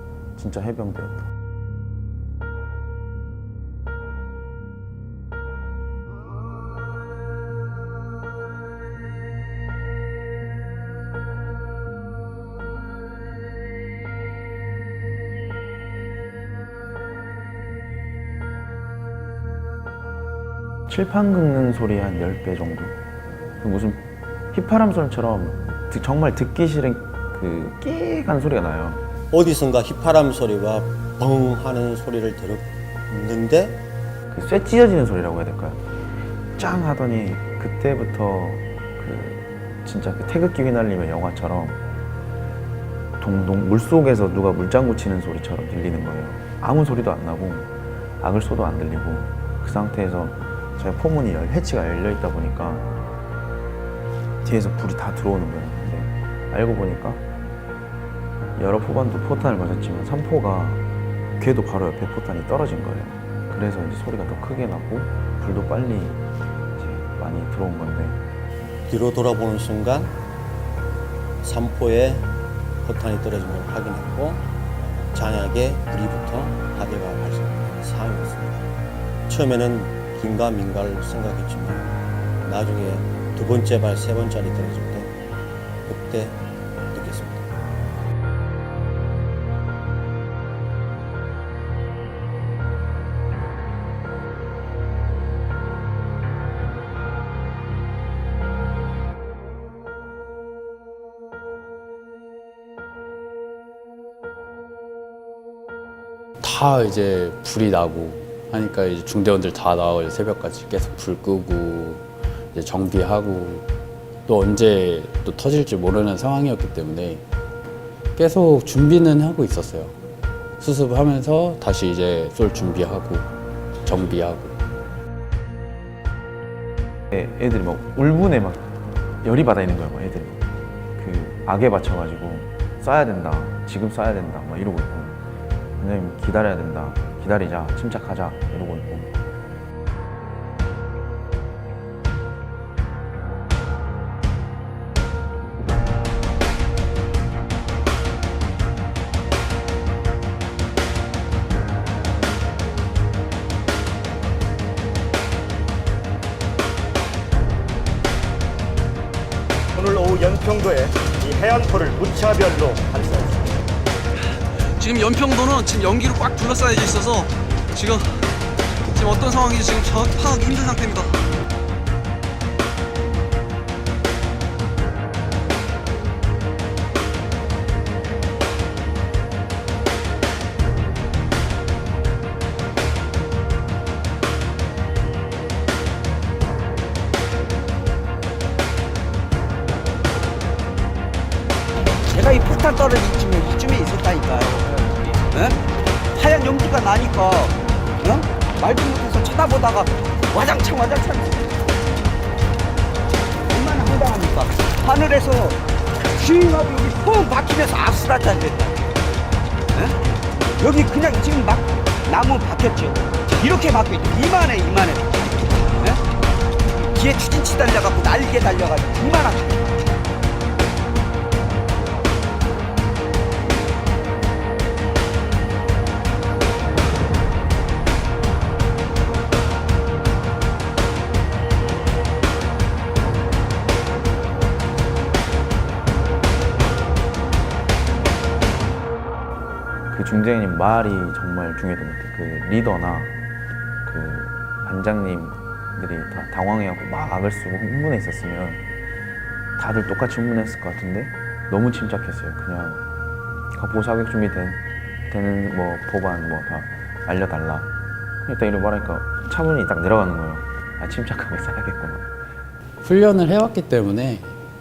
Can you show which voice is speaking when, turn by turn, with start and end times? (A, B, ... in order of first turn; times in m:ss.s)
0:00.4-0:01.3 A
0:20.9-0:22.9 A
0:23.6-0:29.0 A
0:29.3-0:33.8 B
0:34.3-0:35.8 A
0:36.6-0:41.8 A
0:43.2-0:52.9 A
0:54.4-0:57.2 A
0:58.6-1:00.9 A
1:01.4-1:06.2 A
1:06.8-1:08.2 A
1:08.9-1:10.2 B
1:11.4-1:12.3 B
1:12.8-1:18.6 B
1:19.3-1:25.1 B
1:25.9-1:27.5 B
1:46.4-1:53.6 C
1:54.2-1:57.2 C
1:58.1-2:00.0 C
2:00.6-2:03.3 C
2:03.8-2:04.6 C
2:07.1-2:10.4 A
2:11.0-2:15.2 A
2:15.8-2:19.1 A
2:39.7-2:43.6 D
2:44.8-2:48.2 E
2:48.9-2:51.2 E
3:12.1-3:15.6 F
3:16.1-3:21.4 F
3:23.5-3:25.6 F
3:26.1-3:28.8 F
3:30.6-3:36.0 F
3:36.9-3:39.8 F
3:59.9-4:03.2 A
4:03.8-4:08.6 A
4:09.6-4:12.8 A
4:13.5-4:17.7 A
4:18.2-4:22.1 A
4:22.8-4:24.3 C